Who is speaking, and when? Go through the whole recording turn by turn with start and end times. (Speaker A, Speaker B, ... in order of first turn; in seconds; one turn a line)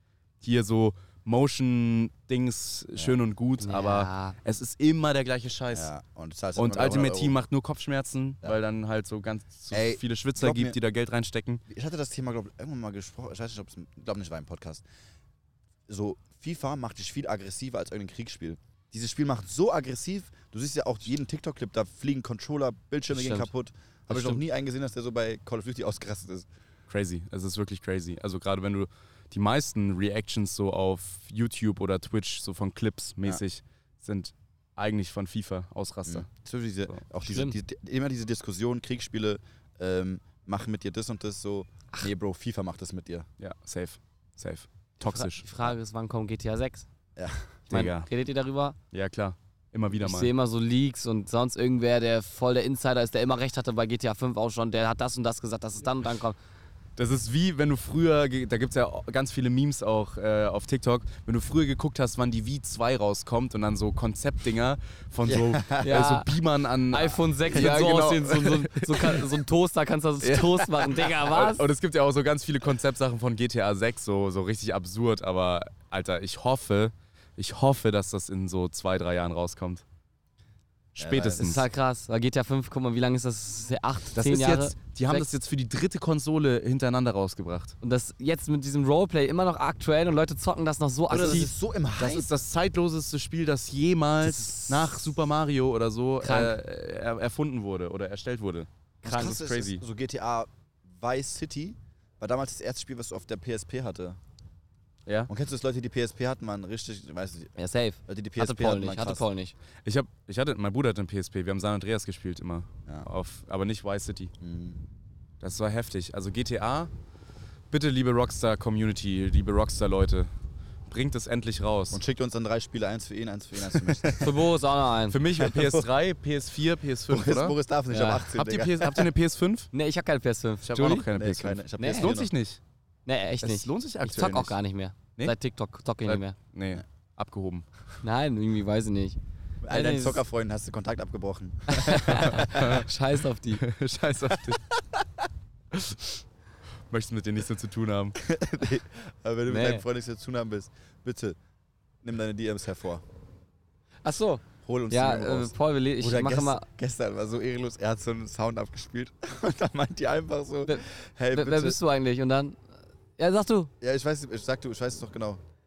Speaker A: 0.4-5.9
Speaker B: 3.6-4.3
Speaker C: 5.7-7.4
Speaker A: 6.5-11.6
Speaker C: 9.7-10.8
Speaker C: 11.7-14.8
Speaker C: 15.9-26.5
Speaker B: 23.1-23.5
Speaker B: 24.1-24.4
Speaker A: 26.9-36.3
Speaker C: 36.1-43.3
Speaker B: 37.2-37.5
Speaker A: 43.4-45.5
Speaker B: 45.0-46.9
Speaker C: 47.1-47.5
Speaker A: 47.7-48.1
Speaker B: 47.7-48.8
Speaker A: 48.9-50.3
Speaker B: 50.0-56.4
Speaker A: 57.0-69.3
Speaker C: 65.2-66.0
Speaker B: 65.8-66.3
Speaker B: 66.9-71.7
Speaker A: 70.2-79.8
Speaker A: 80.9-81.7
Speaker C: 81.0-81.5
Speaker B: 81.4-85.3
Speaker A: 84.1-87.8
Speaker B: 87.8-91.5
Speaker C: 91.1-92.3
Speaker A: 92.0-99.8
Speaker B: 94.2-95.0
Speaker B: 96.2-96.5
Speaker C: 99.0-104.2
Speaker B: 99.0-99.4
Speaker A: 105.0-105.3
Speaker C: 105.3-107.5
Speaker B: 107.6-109.5
Speaker C: 108.1-109.2
Speaker A: 109.8-114.3
Speaker C: 114.4-114.8
Speaker A: 115.4-116.9
Speaker A: 117.7-120.3
Speaker A: 120.9-122.0
Speaker C: 121.9-124.4
Speaker A: 123.7-124.2
Speaker B: 124.2-125.2
Speaker A: 125.1-127.6
Speaker C: 125.3-125.9
Speaker C: 127.1-129.1
Speaker B: 127.9-128.3
Speaker A: 128.2-129.7
Speaker B: 129.7-131.1
Speaker A: 130.6-132.6
Speaker C: 131.1-132.3
Speaker B: 131.8-132.1
Speaker B: 133.1-136.3
Speaker A: 133.4-134.6
Speaker A: 136.1-137.7
Speaker B: 138.0-139.2
Speaker C: 139.6-142.8
Speaker B: 139.7-140.2
Speaker B: 141.7-143.6
Speaker A: 141.9-142.9
Speaker A: 143.5-144.7
Speaker A: 145.7-146.1
Speaker A: 146.9-148.2
Speaker C: 148.2-151.4
Speaker B: 149.5-149.8
Speaker C: 152.0-153.0
Speaker B: 154.0-156.7
Speaker C: 154.6-161.8
Speaker B: 160.7-162.6
Speaker B: 163.2-163.7
Speaker C: 163.8-165.4